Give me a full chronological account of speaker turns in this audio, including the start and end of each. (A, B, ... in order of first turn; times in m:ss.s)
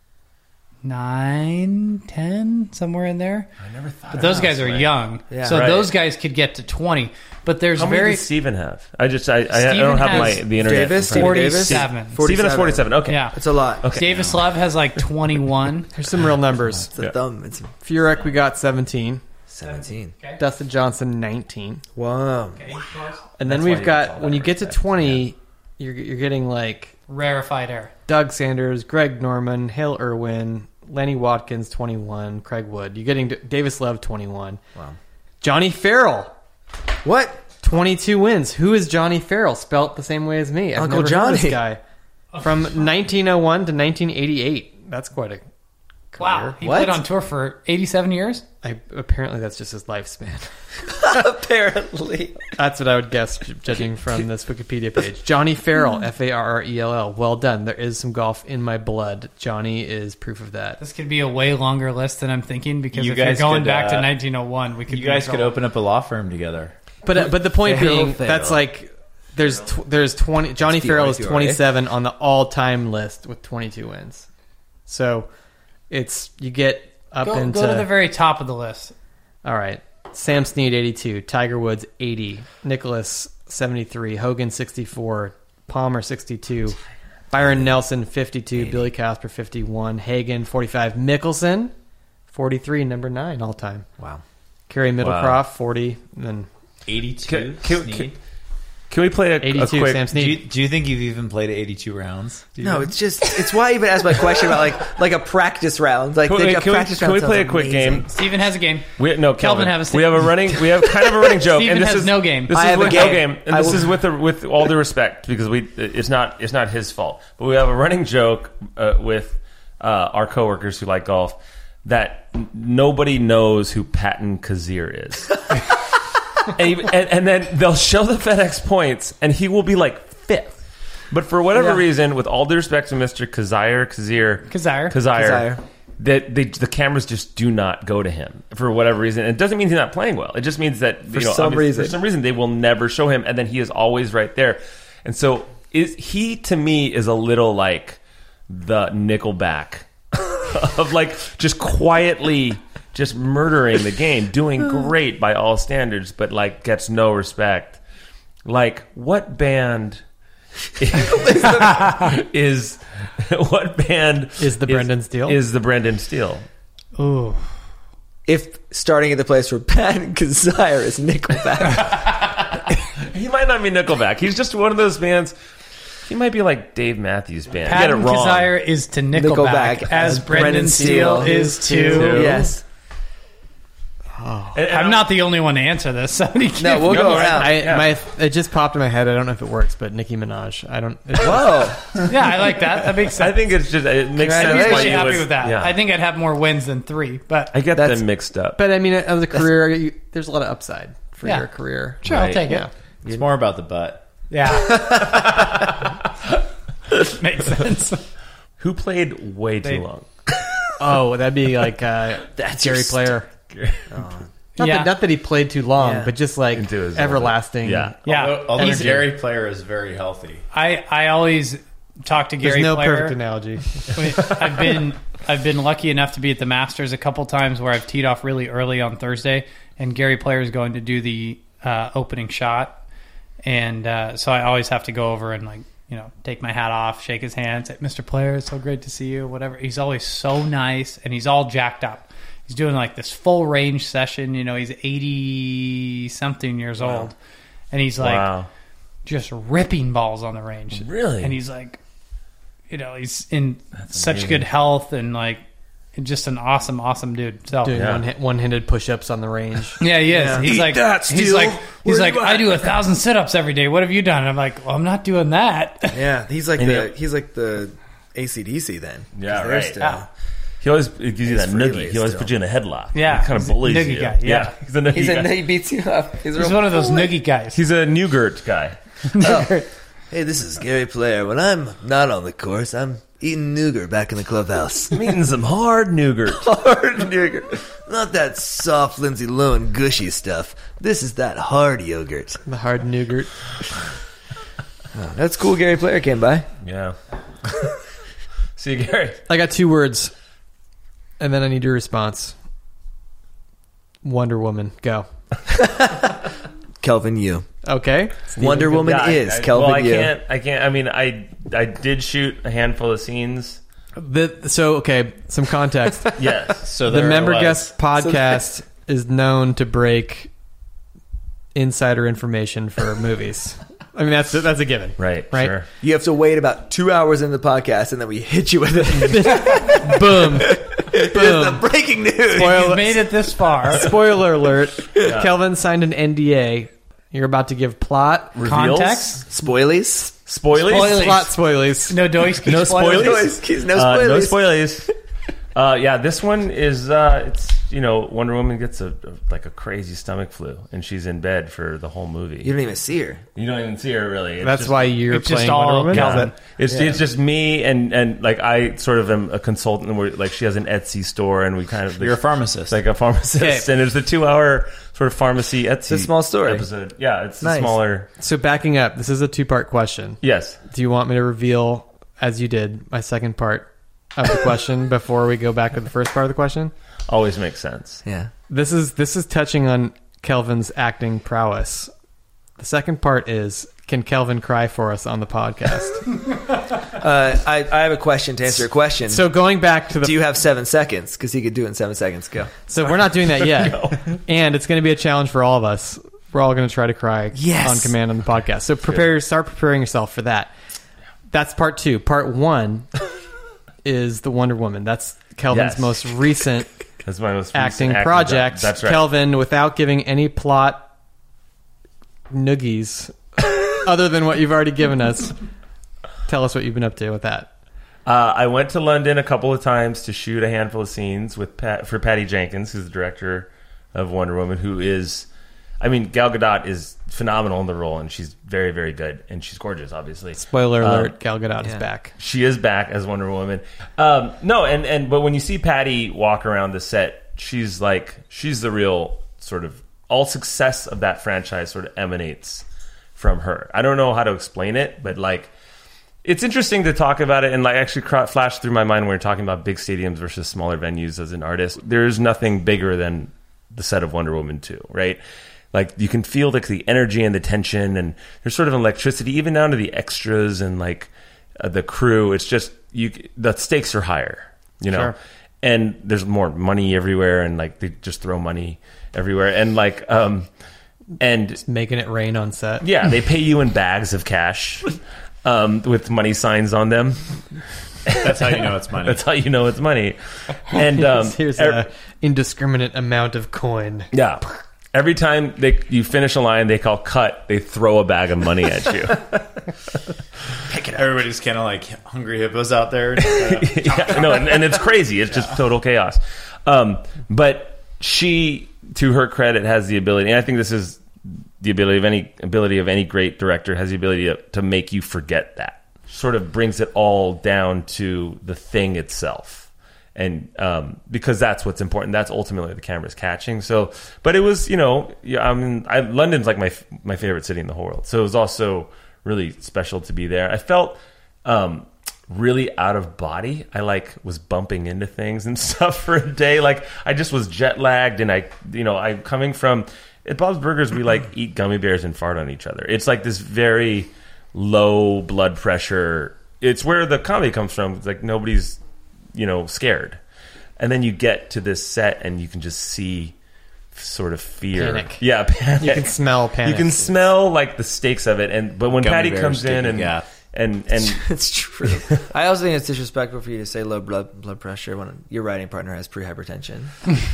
0:00.8-0:03.5 A
0:03.6-0:04.9 B
0:04.1-0:08.2 A
0:04.2-0:04.5 C
0:05.3-0:05.9 C
0:07.8-0:13.3 B
0:09.5-0:10.5 A
0:10.1-0:13.9 C
0:11.0-0:12.2 A
0:13.1-0:15.9 A
0:13.8-0:14.4 B
0:15.9-0:16.9 D
0:16.9-0:17.7 C
0:17.8-0:19.2 D
0:19.5-0:20.1 C
0:19.6-0:20.4 A
0:20.4-0:21.8 D
0:22.0-0:22.8 C
0:22.6-0:23.3 A
0:23.4-0:27.0 D
0:23.4-0:25.2 B
0:27.1-0:27.9 A
0:28.1-0:34.6 D
0:35.4-0:36.3 D
0:37.0-0:37.4 C
0:37.6-0:41.8 D
0:40.8-0:41.6 C
0:42.4-0:45.4 D
0:46.1-0:46.6 D
0:46.2-0:48.4 A
0:46.6-0:47.0 C
0:48.6-0:50.5 D
0:50.9-0:52.4 C
0:52.6-1:00.8 D
1:00.8-1:05.5 A
1:02.9-1:04.2 E
1:04.9-1:06.7 E
1:07.0-1:14.3 D
1:07.1-1:08.6 C
1:10.6-1:11.6 C
1:14.9-1:15.3 D
1:15.9-1:17.9 D
1:17.2-1:18.9 A
1:19.4-1:26.8 D
1:27.3-1:31.7 D
1:32.3-1:33.9 D
1:34.7-1:36.5 D
1:35.0-1:35.4 B
1:36.9-1:38.2 E
1:37.3-1:38.1 B
1:38.9-1:40.1 B
1:39.4-1:40.4 D
1:40.1-1:42.5 E
1:42.6-1:42.9 B
1:42.6-1:48.1 C
1:46.3-1:48.1 B
1:48.1-1:53.2 A
1:49.0-2:05.7 B
1:52.5-1:53.9 C
2:06.4-2:10.6 B
2:11.1-2:37.8 B
2:11.5-2:11.8 C
2:14.5-2:15.0 A
2:15.1-2:15.6 C
2:21.1-2:22.0 C
2:38.4-2:40.0 B
2:40.8-2:46.4 B
2:41.0-2:41.6 C
2:44.4-2:45.4 D
2:47.0-2:47.5 A
2:48.2-2:52.0 C
2:51.9-2:55.3 B
2:56.0-2:58.5 B
2:57.6-3:02.3 A
2:59.1-3:01.3 C
3:00.3-3:02.5 D
3:01.9-3:02.4 B
3:02.0-3:02.6 C
3:04.2-3:04.6 D
3:04.5-3:05.1 B
3:04.7-3:07.3 A
3:06.6-3:07.6 C
3:06.8-3:07.9 B
3:07.4-3:11.8 D
3:11.2-3:11.8 C
3:12.1-3:13.4 A
3:13.2-3:15.7 B
3:14.2-3:15.2 C
3:14.2-3:17.6 A
3:17.5-3:18.6 B
3:17.7-3:18.0 C
3:18.6-3:22.7 D
3:22.0-3:22.7 A
3:22.0-3:22.5 B
3:23.0-3:24.1 E
3:24.3-3:25.4 A
3:27.0-3:28.0 A
3:28.6-3:30.3 B
3:30.8-3:33.3 D
3:32.3-3:33.1 C
3:33.5-3:34.0 B
3:33.9-3:34.3 C
3:34.6-3:38.0 D
3:34.6-3:34.9 A
3:35.8-3:36.1 C
3:36.5-3:38.0 B
3:38.0-3:39.0 A
3:38.1-3:40.4 E
3:38.6-3:39.0 D
3:40.5-3:43.2 A
3:42.4-3:44.7 D
3:43.9-3:52.8 A
3:53.4-4:07.1 A
4:06.8-4:07.1 B
4:07.7-4:08.3 A
4:08.0-4:08.5 B
4:09.0-4:11.8 A
4:10.7-4:11.4 B
4:12.7-4:15.4 A
4:13.8-4:14.5 B
4:15.9-4:17.8 A
4:17.6-4:19.8 D
4:17.7-4:18.0 B
4:19.8-4:26.0 A
4:20.1-4:22.8 C
4:25.9-4:30.1 C
4:26.6-4:26.9 B
4:29.2-4:29.9 B
4:30.6-4:35.4 B
4:31.2-4:32.3 C
4:32.9-4:34.6 A
4:34.9-4:37.1 C
4:36.4-4:37.6 A
4:37.5-4:38.8 B
4:39.1-4:39.6 A
4:39.2-4:45.1 C
4:44.9-4:46.5 B
4:46.3-4:52.4 C
4:52.4-4:53.3 D
4:54.9-4:56.5 C
4:56.6-4:57.0 B
4:58.6-4:59.2 B
4:59.3-5:00.1 D
5:01.2-5:02.3 D
5:04.0-5:05.1 D
5:05.5-5:06.2 C
5:06.8-5:07.4 C
5:07.6-5:08.9 D
5:08.4-5:10.1 C
5:08.7-5:13.6 B
5:14.0-5:20.3 D
5:16.2-5:16.6 B
5:16.6-5:17.7 E
5:18.0-5:18.4 C
5:21.5-5:25.5 D
5:25.0-5:25.7 B
5:25.8-5:32.7 C
5:28.9-5:31.6 D
5:32.3-5:33.0 D
5:32.4-5:33.9 A
5:33.6-5:38.4 D
5:35.0-5:35.3 B
5:38.3-5:39.2 B
5:38.4-5:39.2 A
5:39.2-5:40.1 C
5:40.2-5:41.2 B
5:40.6-5:41.3 A
5:40.7-5:42.0 D
5:41.9-5:43.2 A
5:42.4-5:44.9 B
5:42.5-5:44.6 C
5:45.5-5:52.5 B
5:52.4-5:53.2 C
5:53.4-5:55.4 B
5:54.4-5:56.3 D
5:55.1-5:56.3 A
5:55.9-6:08.1 B
5:56.7-5:57.0 C
6:02.0-6:02.8 E
6:03.4-6:03.7 D
6:05.9-6:06.7 C
6:07.4-6:07.8 C
6:08.2-6:16.7 D
6:10.2-6:10.6 B
6:17.1-6:18.0 B
6:18.0-6:18.3 C
6:18.5-6:21.9 D
6:22.6-6:26.0 D
6:26.9-6:29.3 C
6:29.1-6:30.2 D
6:29.9-6:32.5 C
6:32.7-6:40.5 D
6:33.1-6:34.0 B
6:37.3-6:37.9 C
6:41.3-6:42.9 D
6:43.8-6:46.7 D
6:45.5-6:46.1 B
6:47.0-6:49.1 B
6:47.5-6:50.9 D
6:52.3-6:55.4 D
6:56.3-6:57.5 D
6:58.0-7:05.3 B
7:05.8-7:11.1 B
7:10.3-7:12.1 D
7:12.2-7:22.6 B
7:23.2-7:25.5 B
7:26.2-7:35.2 B
7:35.7-7:50.5 B
7:51.2-7:51.6 B
7:51.6-7:52.8 D
7:52.8-7:57.2 B
7:58.0-8:01.8 B
7:58.2-7:59.2 E
8:00.9-8:04.1 D
8:04.1-8:09.4 B
8:10.7-8:11.1 C
8:10.9-8:14.5 E
8:13.2-8:21.0 B
8:21.6-8:58.8 B
8:59.3-9:00.2 B
9:00.8-9:03.3 B
9:03.9-9:11.3 B
9:04.7-9:05.2 D
9:05.8-9:07.1 D
9:08.9-9:10.2 E
9:11.0-9:16.9 C